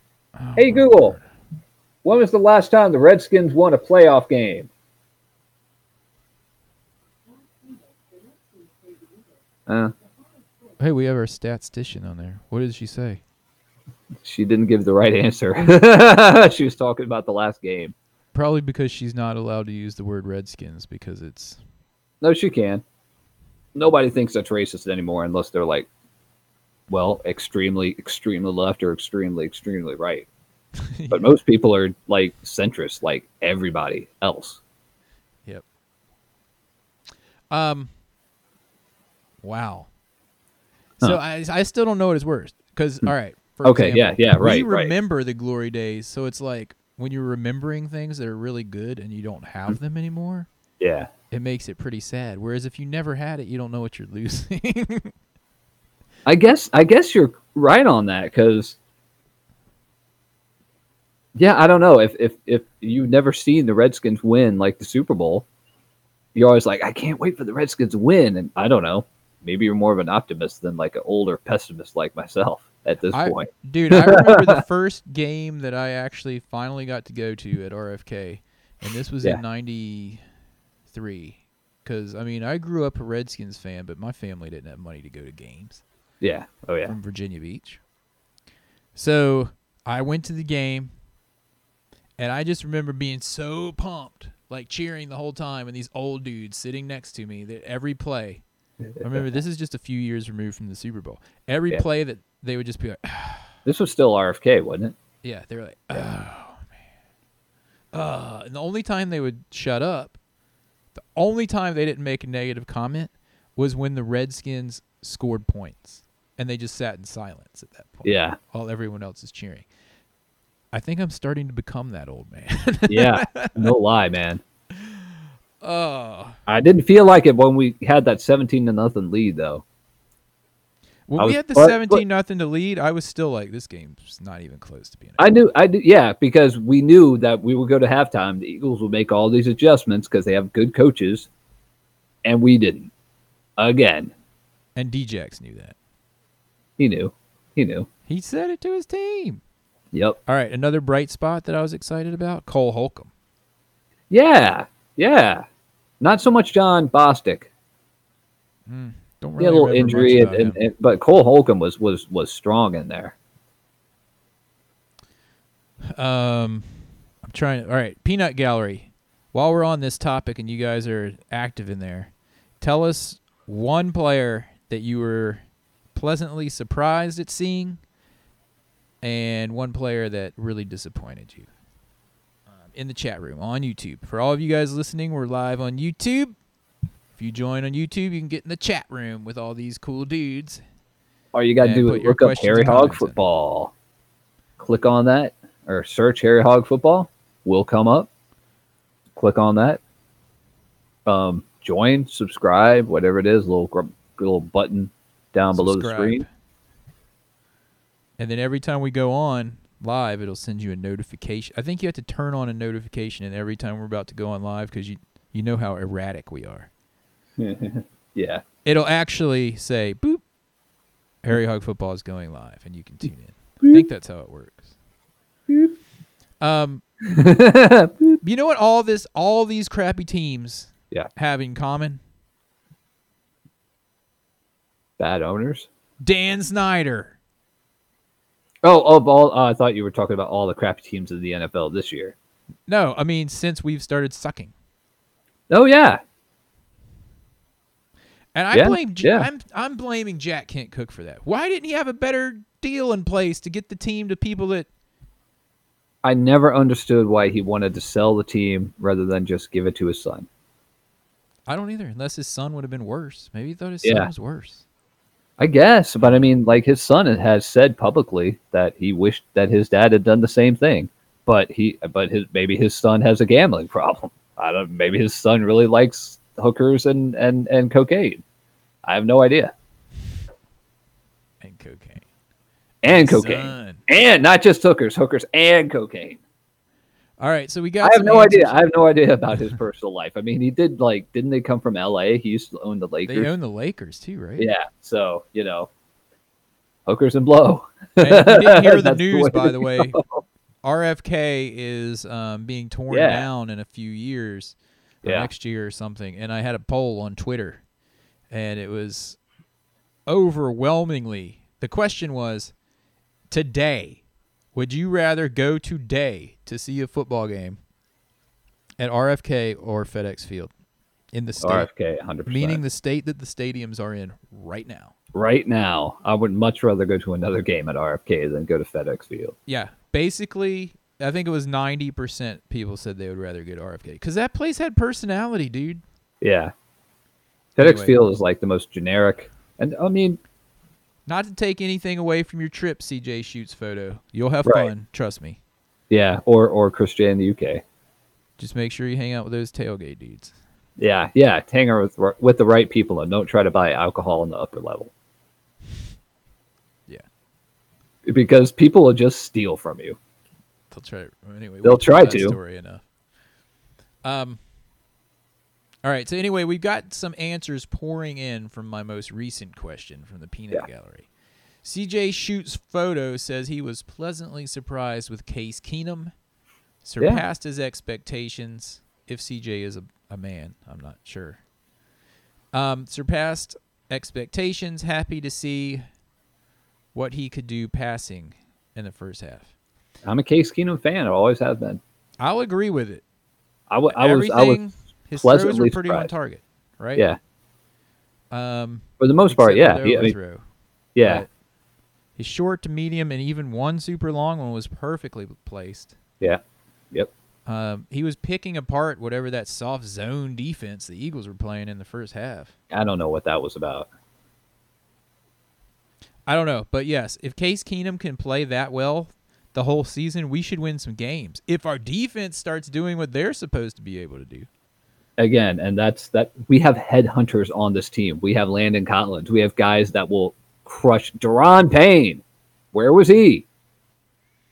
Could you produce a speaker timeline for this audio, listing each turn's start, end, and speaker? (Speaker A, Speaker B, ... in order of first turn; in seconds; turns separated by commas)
Speaker A: 0.4-1.2, Speaker B: 0.6-1.2, Speaker B: 2.0-4.7, Speaker B: 9.7-9.9, Speaker A: 10.8-13.2, Speaker B: 14.2-17.9, Speaker A: 18.3-21.6, Speaker B: 22.2-22.8, Speaker B: 23.7-25.9, Speaker B: 26.9-30.3, Speaker A: 30.8-31.3, Speaker B: 31.1-34.6, Speaker A: 37.5-37.9, Speaker A: 39.4-39.9, Speaker A: 41.0-50.5, Speaker B: 43.6-44.9, Speaker B: 50.8-51.1, Speaker A: 51.3-55.1, Speaker B: 56.2-58.8, Speaker B: 61.4-65.5, Speaker B: 66.3-74.6, Speaker A: 73.1-80.2, Speaker A: 80.9-85.8, Speaker B: 86.2-86.9, Speaker A: 86.8-87.8, Speaker A: 88.9-90.9, Speaker A: 92.2-98.4, Speaker B: 99.0-99.3, Speaker A: 99.0-103.5, Speaker B: 103.6-104.9, Speaker A: 105.2-106.7, Speaker A: 107.9-110.2, Speaker A: 111.0-119.7, Speaker B: 118.0-118.4, Speaker A: 120.7-123.7, Speaker B: 122.9-124.4, Speaker A: 124.8-125.0, Speaker A: 125.6-126.3, Speaker B: 126.5-129.6, Speaker A: 131.1-135.3, Speaker B: 131.2-132.0, Speaker B: 135.2-141.3, Speaker B: 142.2-142.9, Speaker B: 143.6-144.1, Speaker A: 144.8-145.7, Speaker B: 146.8-147.9, Speaker A: 148.1-149.4, Speaker B: 149.9-150.2, Speaker A: 150.2-153.1, Speaker B: 154.1-155.4, Speaker B: 156.0-157.5, Speaker A: 158.7-160.6, Speaker B: 159.4-163.1, Speaker A: 165.9-166.7, Speaker A: 167.2-175.4, Speaker A: 175.9-177.8, Speaker A: 179.0-181.5, Speaker A: 182.6-186.3, Speaker A: 187.1-190.6, Speaker B: 191.3-193.7, Speaker A: 191.6-193.2, Speaker B: 194.6-198.1, Speaker B: 199.2-199.8, Speaker B: 201.1-206.2, Speaker A: 205.5-206.3, Speaker A: 208.2-216.7, Speaker B: 217.4-218.4, Speaker A: 218.6-220.2, Speaker A: 221.2-224.7, Speaker A: 226.4-226.8, Speaker B: 227.0-228.2, Speaker A: 228.2-232.0, Speaker B: 235.0-235.7, Speaker A: 236.0-237.1, Speaker B: 238.6-242.1, Speaker A: 242.7-244.5, Speaker B: 245.5-246.0, Speaker A: 248.3-254.7, Speaker B: 248.5-249.3, Speaker B: 256.0-260.3, Speaker A: 261.5-264.6, Speaker B: 263.8-264.1, Speaker B: 265.4-278.2, Speaker B: 278.8-279.5, Speaker A: 281.4-282.0, Speaker B: 282.8-286.2, Speaker A: 282.9-283.8, Speaker A: 287.2-288.7, Speaker B: 287.8-293.3, Speaker A: 293.1-294.5, Speaker B: 294.4-295.7, Speaker B: 296.9-300.2, Speaker A: 298.0-300.0, Speaker A: 300.6-307.6, Speaker B: 302.9-303.3, Speaker B: 305.0-305.3, Speaker A: 308.3-309.2, Speaker A: 310.1-312.5, Speaker A: 313.3-314.0, Speaker A: 314.5-317.6, Speaker A: 318.8-320.5, Speaker A: 321.1-321.7, Speaker B: 321.4-322.6, Speaker A: 322.2-324.9, Speaker B: 325.1-329.3, Speaker A: 329.5-335.8, Speaker B: 336.2-336.5, Speaker A: 337.6-338.0, Speaker B: 337.6-340.2, Speaker A: 341.1-345.4, Speaker B: 345.9-347.6, Speaker A: 348.4-350.3, Speaker B: 350.8-354.9, Speaker B: 358.1-360.0, Speaker A: 360.7-362.8, Speaker B: 361.6-362.4, Speaker A: 364.0-364.4, Speaker A: 365.8-371.1, Speaker A: 371.6-376.1, Speaker A: 376.8-381.4, Speaker A: 382.5-385.8, Speaker A: 386.9-389.5, Speaker B: 390.0-391.8, Speaker A: 392.2-393.0, Speaker B: 393.7-394.6, Speaker A: 393.9-397.1, Speaker B: 395.1-396.1, Speaker A: 398.3-400.4, Speaker B: 399.0-400.1, Speaker B: 400.9-401.2, Speaker A: 401.0-401.3, Speaker A: 402.2-406.0, Speaker A: 407.4-412.5, Speaker B: 412.7-413.9, Speaker A: 416.3-424.5, Speaker B: 425.2-433.4